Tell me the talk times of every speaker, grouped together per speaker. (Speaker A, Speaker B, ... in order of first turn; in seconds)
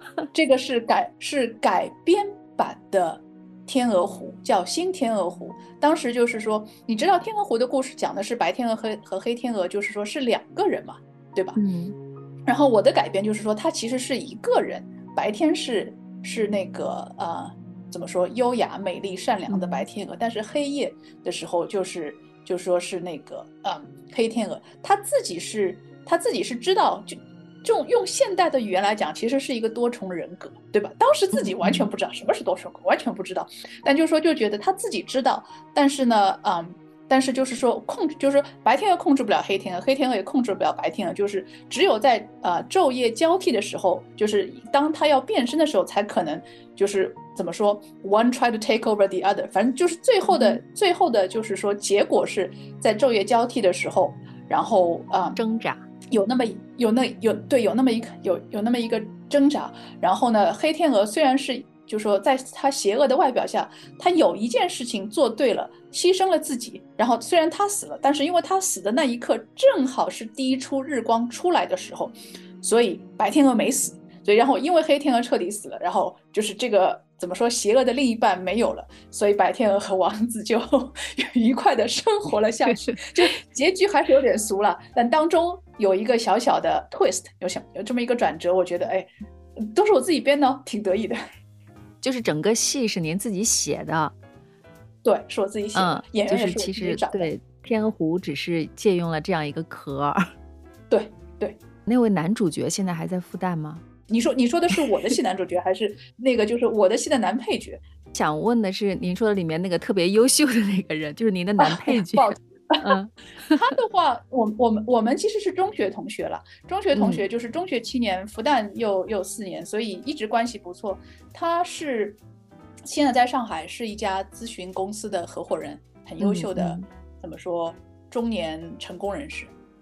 Speaker A: 0.3-11.6, 12.5-55.4, 56.1-89.1, 89.6-91.2, 95.0-97.3, 100.9-101.6, 104.1-107.8, 111.6-112.9, 113.6-122.2, 122.9-129.5
Speaker B: 11.6-11.9, 19.5-19.9, 31.3-31.9, 50.3-50.6, 55.4-55.8, 82.7-83.1, 92.0-94.1, 95.8-100.3, 101.9-103.8, 108.1-113.7, 116.9-117.2, 126.2-126.9